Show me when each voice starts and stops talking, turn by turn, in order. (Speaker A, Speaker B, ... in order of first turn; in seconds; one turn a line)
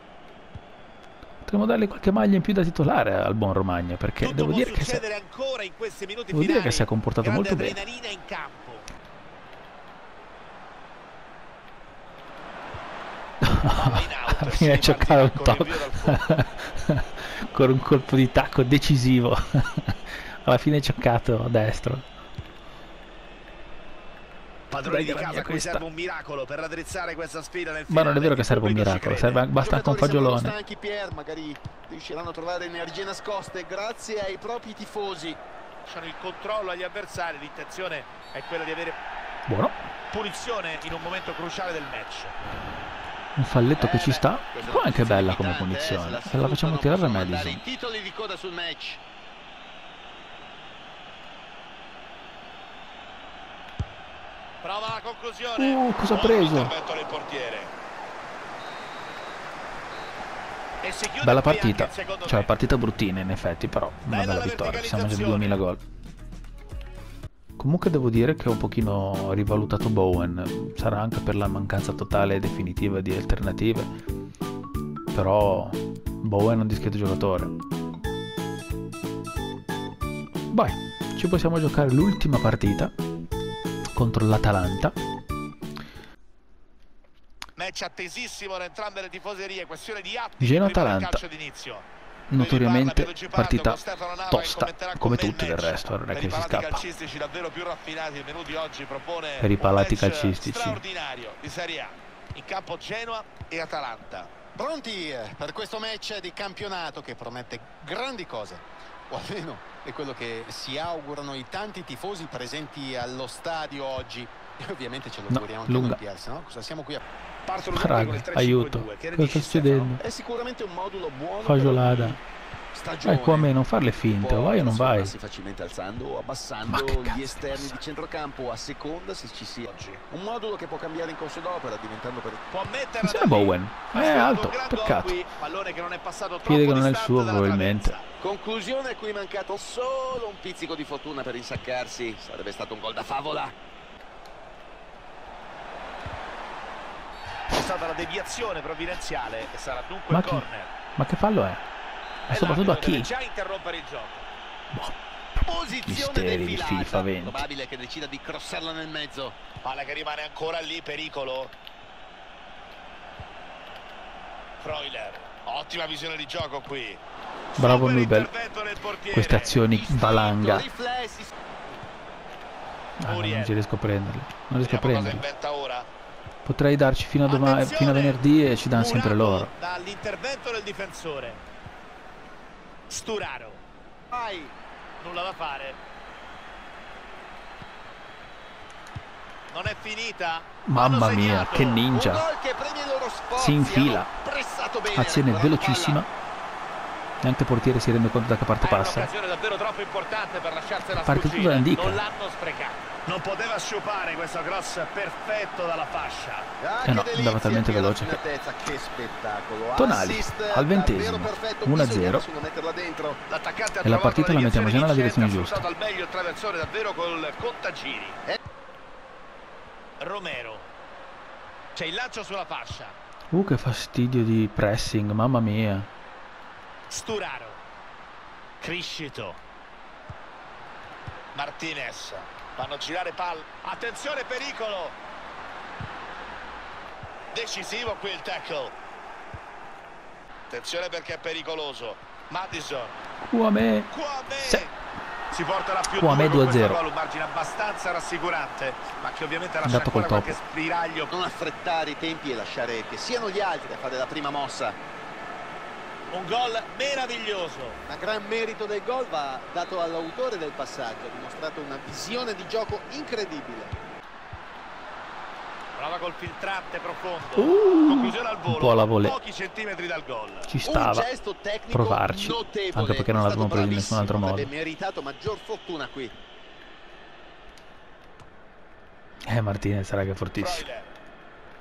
Speaker A: 1.4-5.0
Speaker B: 4.2-8.9
Speaker A: 6.3-7.8
Speaker A: 13.4-22.1
Speaker B: 13.7-16.4
Speaker B: 24.7-29.4
Speaker A: 24.8-25.8
Speaker A: 27.9-30.6
Speaker C: 29.6-35.4
Speaker B: 35.9-39.0
Speaker A: 39.5-39.8
Speaker B: 40.1-42.4
Speaker A: 43.4-47.6
Speaker C: 43.8-49.0
Speaker B: 54.6-57.7
Speaker A: 55.6-56.7
Speaker B: 60.8-62.5
Speaker A: 61.2-65.8
Speaker B: 64.1-65.6
Speaker A: 67.6-73.9
Speaker A: 75.1-77.5
Speaker A: 80.5-82.9
Speaker A: 83.9-85.0
Speaker B: 87.6-104.3
Speaker A: 90.4-91.2
Speaker A: 92.3-96.8
Speaker A: 99.4-100.8
Speaker C: 104.6-117.0
Speaker A: 115.3-116.0
Speaker B: 117.5-120.0
Speaker A: 117.7-120.0
Speaker C: 120.0-122.2
Speaker A: 121.4-122.2
Speaker C: 122.7-132.5
Speaker A: 123.0-125.1
Speaker A: 126.7-127.8
Speaker B: 129.7-130.0
Speaker B: 132.5-138.1
Speaker A: 133.0-135.2
Speaker A: 136.4-138.0
Speaker C: 138.2-143.6
Speaker B: 147.5-150.7
Speaker A: 150.1-151.6
Speaker A: 152.3-153.1
Speaker B: 152.3-154.3
Speaker C: 155.4-159.4
Speaker A: 155.9-157.4
Speaker B: 159.6-161.5
Speaker B: 164.6-167.0
Speaker B: 167.6-169.6
Speaker A: 167.6-168.3
Speaker A: 169.1-170.7
Speaker C: 169.7-171.3
Speaker A: 173.0-175.2
Speaker B: 173.1-173.5
Speaker B: 174.6-175.9
Speaker A: 176.4-179.5
Speaker B: 177.3-181.4
Speaker B: 182.9-183.6
Speaker C: 184.1-184.5
Speaker B: 185.0-185.8
Speaker B: 189.5-191.8
Speaker A: 190.7-192.3
Speaker C: 191.9-196.0
Speaker A: 193.4-194.1
Speaker A: 194.9-196.1
Speaker A: 197.2-199.1
Speaker B: 198.6-206.5
Speaker A: 201.0-202.0
Speaker C: 206.6-213.2
Speaker A: 206.8-208.2
Speaker A: 209.8-212.3
Speaker B: 213.3-218.2
Speaker A: 213.8-215.7
Speaker B: 220.0-220.7
Speaker B: 221.8-223.0
Speaker A: 223.3-225.9
Speaker B: 226.9-227.6
Speaker B: 228.6-229.4
Speaker B: 231.3-235.0
Speaker B: 237.3-238.7
Speaker B: 240.5-243.1
Speaker A: 243.2-243.9
Speaker B: 243.9-244.7
Speaker B: 245.3-251.1
Speaker A: 245.9-246.8
Speaker A: 249.6-250.4
Speaker C: 251.1-254.8
Speaker B: 256.1-257.8
Speaker C: 257.9-263.8
Speaker B: 265.8-270.5
Speaker A: 267.4-269.2
Speaker A: 270.5-271.1
Speaker C: 270.6-276.1
Speaker A: 271.7-274.5
Speaker B: 273.4-274.1
Speaker A: 279.3-280.6
Speaker B: 280.4-280.9